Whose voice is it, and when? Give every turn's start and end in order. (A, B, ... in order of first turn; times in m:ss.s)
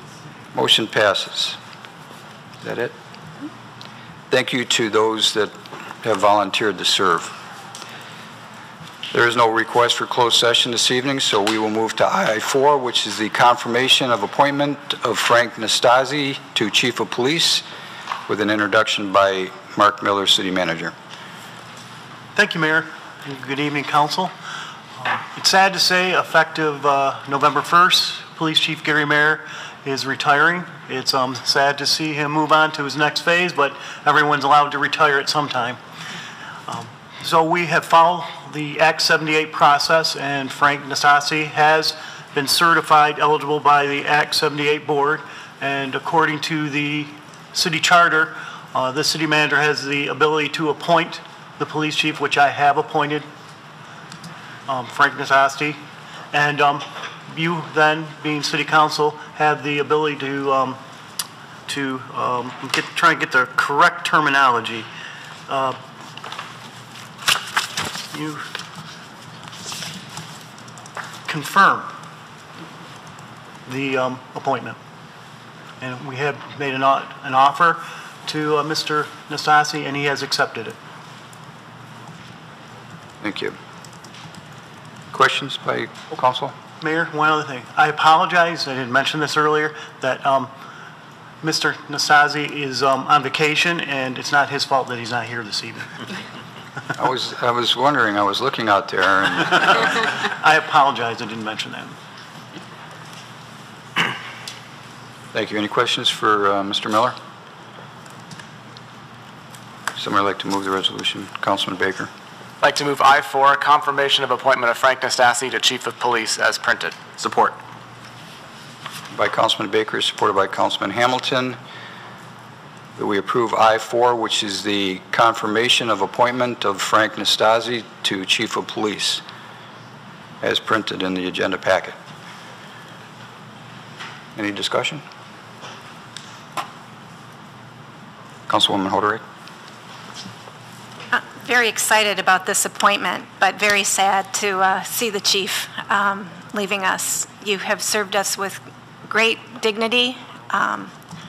0:00.5-0:01.6 A
0:02.6-0:02.9 A
0:04.3-0:05.5 A
0:06.0-0:07.3 A
0:09.1-0:17.6 A
0:18.3-0:20.9 A
0:22.3-0:24.3 B
0:25.0-0:35.8 B
0:36.7-0:53.3 B
0:54.7-0:55.8 B
0:56.3-1:00.8 B
1:01.7-1:04.9 B
1:05.5-1:05.8 B
1:08.1-1:08.4 B
1:11.3-1:11.9 B
1:13.6-1:14.8 B
1:15.8-1:20.8 B
1:23.2-1:23.6 A
1:25.1-1:26.5 A
1:26.8-1:30.5 B
1:31.4-1:35.9 B
1:37.0-1:40.0 A
1:40.3-1:41.9 B
1:45.3-1:47.2 A
1:50.0-1:52.1 A
1:52.6-1:57.5 C
1:59.1-2:01.6 A
2:03.0-2:09.2 A
2:10.4-2:12.0 A
2:14.3-2:15.0 A
2:18.5-2:19.2 A
2:21.1-2:30.9 D